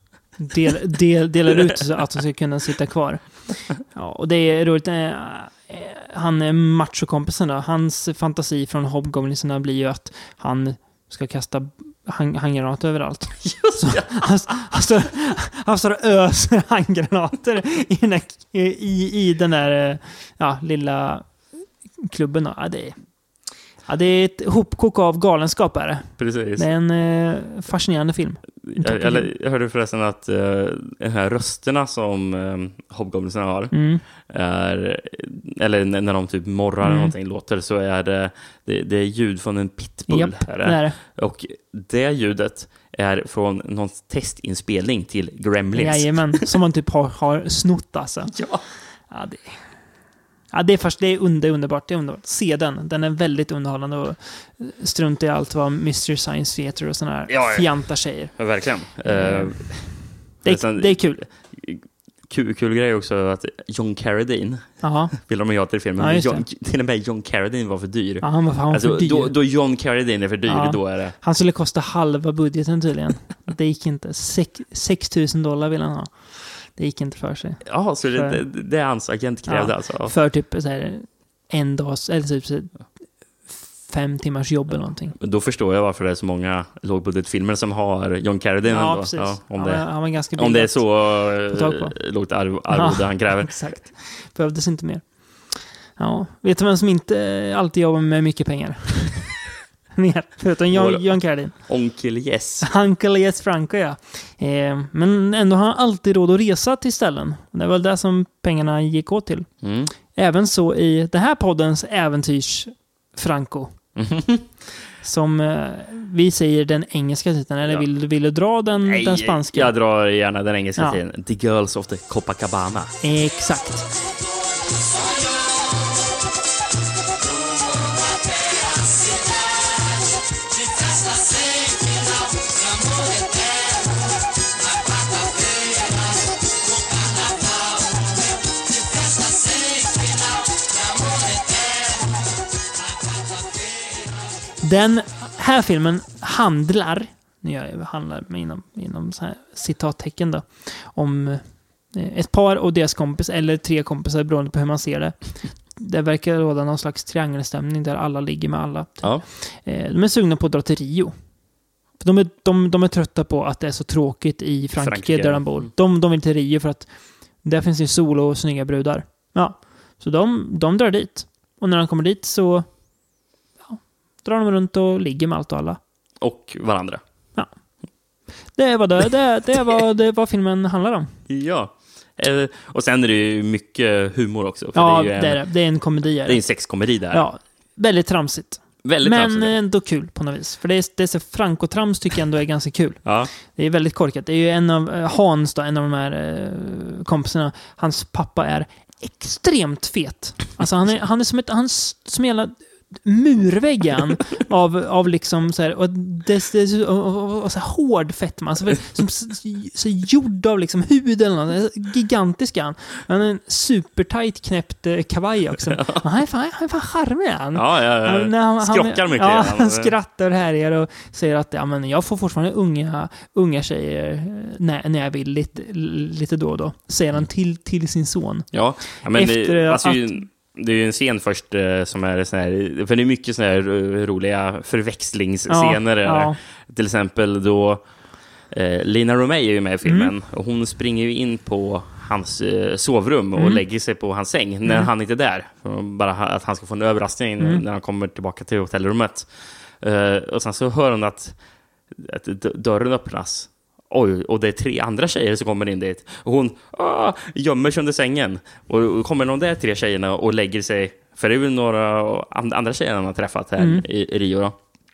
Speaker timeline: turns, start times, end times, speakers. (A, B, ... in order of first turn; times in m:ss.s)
0:00.4-0:29.3 A
0:13.4-0:14.5 B
0:26.2-0:26.7 B
0:28.6-0:46.4 B
0:33.7-0:34.0 A
0:36.8-0:37.1 A
0:40.1-0:41.0 A
0:45.7-1:01.2 A
0:48.3-0:48.6 B
0:57.3-1:11.2 B
1:04.8-1:05.1 A
1:06.0-1:06.4 A
1:08.2-1:09.4 A
1:10.5-1:18.5 A
1:17.6-1:20.2 B
1:19.5-1:25.2 A
1:24.7-1:33.8 B
1:28.7-1:39.4 A
1:40.0-1:41.9 A
1:40.7-1:42.7 B
1:42.6-1:49.5 A
1:49.6-1:49.9 B
1:50.0-1:53.9 A
1:54.0-1:54.6 B
1:55.0-1:59.7 A
1:58.8-2:02.9 B
2:03.0-2:03.9 A
2:24.6-2:41.3 A
2:42.0-2:55.8 A
2:44.8-2:45.7 B
2:56.2-2:57.0 B
2:57.4-3:01.2 A
3:01.3-3:07.3 B
3:04.7-3:50.2 A
3:08.8-3:09.6 B
3:13.0-3:13.3 B
3:35.7-3:36.0 B
3:37.6-3:39.9 B
3:48.5-4:24.7 B
3:55.5-3:56.4 A
3:59.8-4:00.1 A
4:23.6-4:23.8 A